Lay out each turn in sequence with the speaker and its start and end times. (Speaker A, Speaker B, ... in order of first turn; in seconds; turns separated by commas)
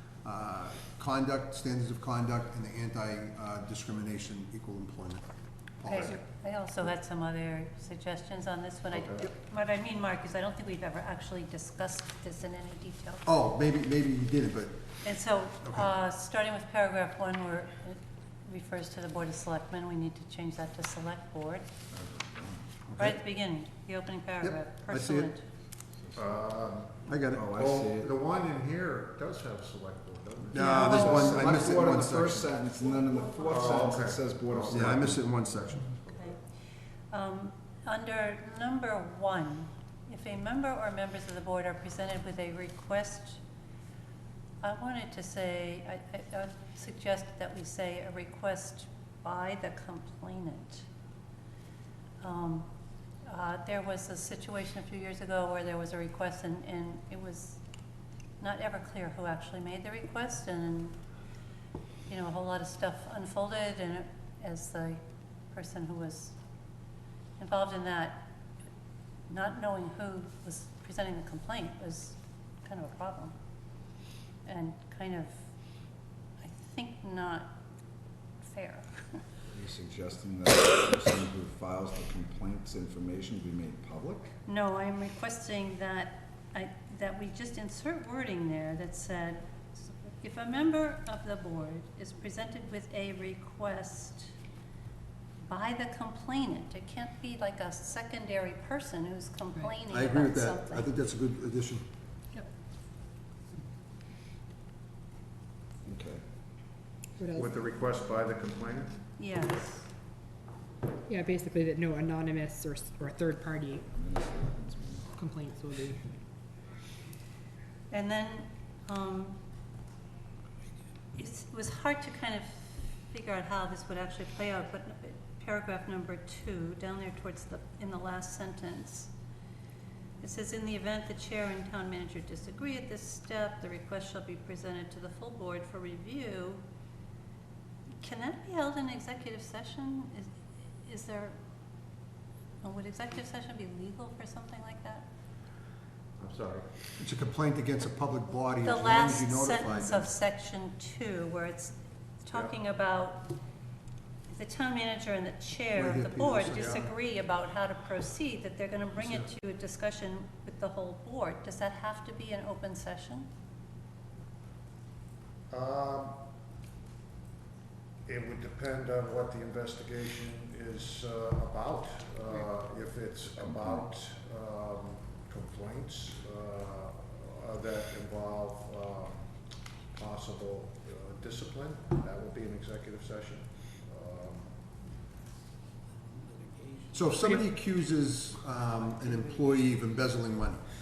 Speaker A: 0.2-5.2, Speaker A: 5.8-6.2, Speaker B: 5.9-13.2, Speaker C: 8.9-9.2, Speaker A: 13.3-14.9, Speaker B: 15.0-21.7, Speaker D: 21.9-22.7, Speaker A: 22.9-23.2, Speaker B: 23.0-25.4, Speaker A: 24.4-25.3, Speaker C: 26.2-31.7, Speaker A: 27.1-27.5, Speaker D: 27.3-28.1, Speaker A: 30.5-32.5, Speaker B: 30.5-31.4, Speaker D: 30.8-35.2, Speaker C: 33.4-36.4, Speaker A: 34.7-36.0, Speaker B: 36.1-36.4, Speaker B: 37.1-43.4, Speaker B: 44.6-50.9, Speaker B: 52.2-52.7, Speaker B: 53.2-57.6, Speaker B: 58.4-61.0, Speaker B: 62.1-65.0, Speaker B: 65.5-66.4, Speaker B: 67.4-68.2, Speaker B: 69.3-73.3, Speaker B: 74.5-75.5, Speaker B: 76.4-77.5, Speaker B: 78.4-79.2, Speaker D: 79.5-84.3, Speaker B: 84.5-94.3, Speaker B: 95.4-100.9, Speaker A: 99.9-101.8, Speaker D: 105.8-106.2, Speaker E: 107.2-107.5, Speaker C: 107.3-109.0, Speaker B: 109.2-109.9, Speaker E: 111.1-113.8, Speaker D: 113.8-115.1, Speaker E: 115.2-116.2, Speaker B: 117.9-119.4, Speaker B: 121.2-129.1, Speaker B: 130.2-136.6, Speaker B: 138.0-141.4, Speaker B: 142.6-145.1, Speaker C: 146.2-146.7, Speaker A: 147.0-150.1, Speaker B: 148.6-153.3, Speaker B: 154.3-163.3, Speaker A: 155.7-156.9, Speaker A: 159.0-159.3, Speaker C: 165.5-166.2, Speaker C: 168.1-179.3, Speaker C: 179.9-184.6, Speaker A: 186.9-190.7